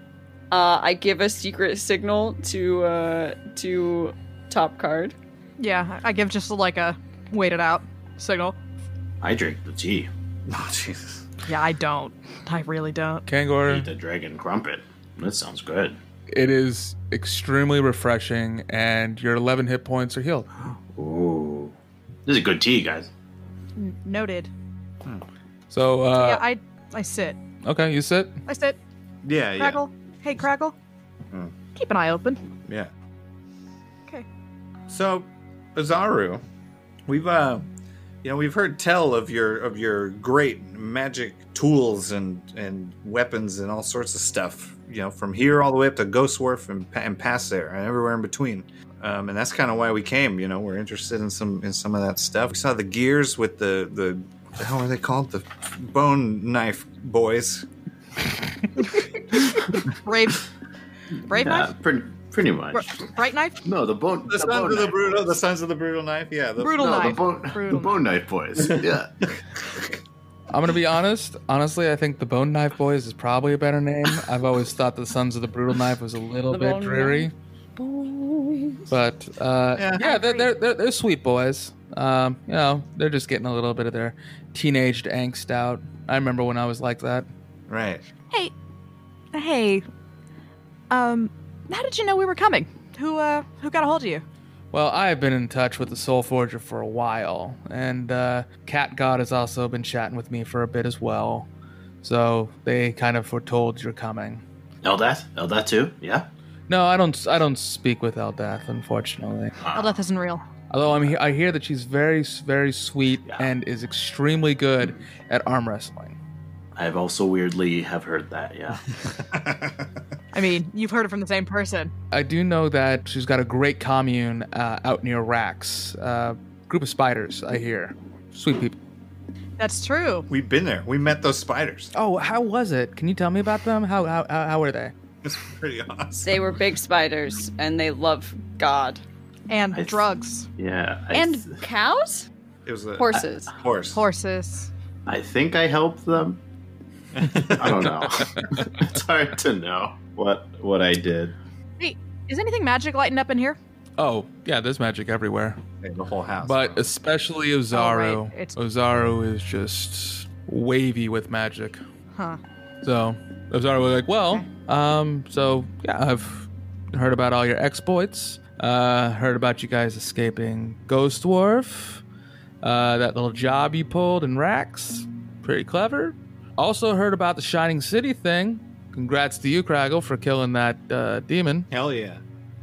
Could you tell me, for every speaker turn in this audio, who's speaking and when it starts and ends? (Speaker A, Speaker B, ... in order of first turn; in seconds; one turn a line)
Speaker A: 0.5-5.2
Speaker B: 5.6-8.6
Speaker C: 9.2-10.1
Speaker D: 10.5-11.2
Speaker B: 11.5-13.2
Speaker E: 13.3-13.9
Speaker C: 13.7-16.0
Speaker E: 16.3-20.5
Speaker C: 20.6-21.7
Speaker C: 22.3-23.1
Speaker B: 23.8-24.5
Speaker E: 25.7-26.4
Speaker B: 26.1-27.4
Speaker E: 27.6-28.4
Speaker B: 28.5-28.8
Speaker D: 29.2-29.8
Speaker B: 29.6-30.8
Speaker B: 31.8-32.4
Speaker D: 32.7-32.9
Speaker D: 34.9-36.4
Speaker D: 37.1-37.7
Speaker D: 38.2-57.7
Speaker B: 59.3-60.5
Speaker B: 61.3-61.7
Speaker C: 61.3-63.1
Speaker B: 62.7-63.6
Speaker C: 63.6-65.3
Speaker D: 64.3-67.2
Speaker B: 66.6-68.0
Speaker C: 66.8-69.1
Speaker E: 70.5-77.3
Speaker A: 76.5-78.8
Speaker E: 78.9-87.3
Speaker D: 79.8-80.0
Speaker B: 80.0-80.5
Speaker D: 87.7-88.0
Speaker B: 89.3-89.8
Speaker B: 90.9-94.2
Speaker E: 94.7-101.5
Speaker E: 102.0-104.4
Speaker C: 104.8-106.3
Speaker E: 106.7-109.5
Speaker C: 109.6-110.0
Speaker B: 109.7-110.4
Speaker E: 110.7-116.2
Speaker C: 113.2-113.5
Speaker C: 116.8-118.8
Speaker D: 119.3-119.9
Speaker B: 120.3-121.9
Speaker E: 122.1-128.8
Speaker B: 129.6-130.3
Speaker D: 130.3-131.9
Speaker E: 131.9-134.9
Speaker D: 135.2-136.4
Speaker A: 136.2-139.0
Speaker B: 139.5-140.5
Speaker C: 139.7-140.1
Speaker C: 140.6-141.6
Speaker A: 141.1-142.3
Speaker D: 142.7-144.0
Speaker A: 143.0-143.5
Speaker B: 143.9-144.7
Speaker C: 145.1-146.4
Speaker D: 147.2-147.9
Speaker C: 147.5-151.4
Speaker B: 151.8-153.6
Speaker E: 154.0-155.6
Speaker D: 155.8-156.9
Speaker E: 156.4-161.8
Speaker B: 157.7-158.6
Speaker B: 162.2-162.4
Speaker E: 162.8-172.0
Speaker E: 172.6-181.7
Speaker D: 181.7-182.2